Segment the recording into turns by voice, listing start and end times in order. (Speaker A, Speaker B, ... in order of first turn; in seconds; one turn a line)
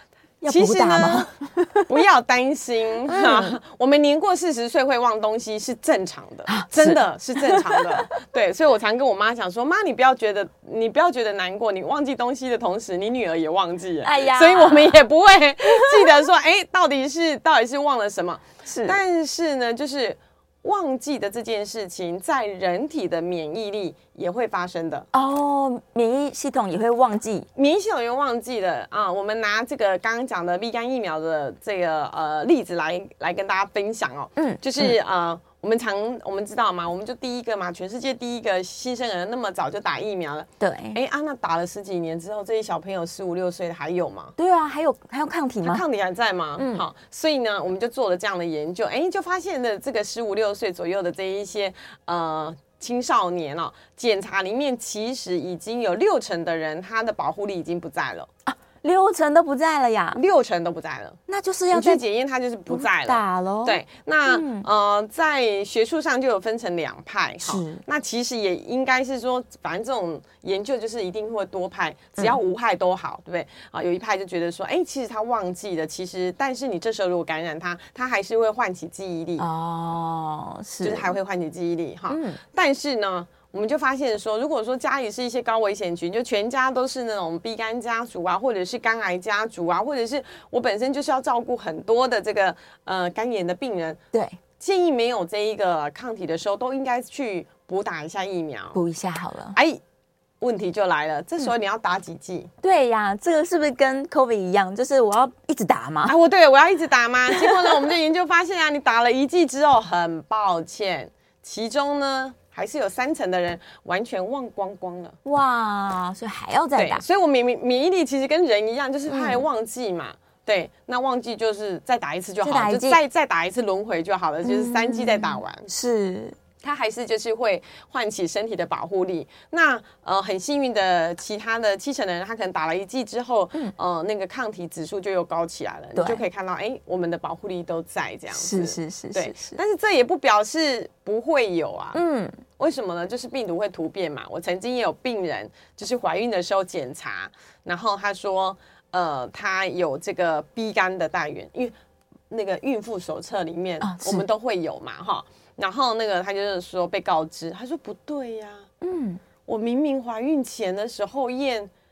Speaker A: 0.4-1.9
Speaker B: 0.5-1.3
Speaker B: 1.9-25.1
Speaker A: 3.0-3.6
Speaker A: 6.5-8.1
Speaker A: 14.0-15.0
Speaker A: 15.7-16.2
Speaker A: 18.6-19.0
Speaker A: 25.1-27.5
Speaker B: 27.6-44.3
Speaker A: 34.4-34.9
Speaker A: 40.6-41.0
Speaker A: 44.4-45.8
Speaker B: 45.6-58.3
Speaker A: 46.6-46.9
Speaker A: 58.5-60.2
Speaker B: 60.1-61.2
Speaker A: 61.3-62.0
Speaker B: 61.7-79.4
Speaker A: 62.7-64.7
Speaker A: 67.4-67.8
Speaker A: 79.4-81.1
Speaker B: 80.8-94.0
Speaker A: 82.1-82.4
Speaker A: 94.1-94.4
Speaker B: 94.6-98.8
Speaker A: 98.7-99.6
Speaker B: 99.5-99.8
Speaker B: 100.4-102.5
Speaker A: 102.6-106.1
Speaker B: 106.1-115.2
Speaker A: 107.3-107.8
Speaker A: 115.2-117.0
Speaker B: 116.8-125.7
Speaker A: 119.1-119.4
Speaker A: 122.4-123.0
Speaker A: 124.4-126.4
Speaker B: 126.6-142.0
Speaker A: 135.9-136.2
Speaker A: 138.3-139.6
Speaker A: 141.9-142.4
Speaker B: 142.6-151.7
Speaker B: 152.3-158.7
Speaker A: 153.8-154.2
Speaker A: 158.8-159.2
Speaker B: 159.4-161.7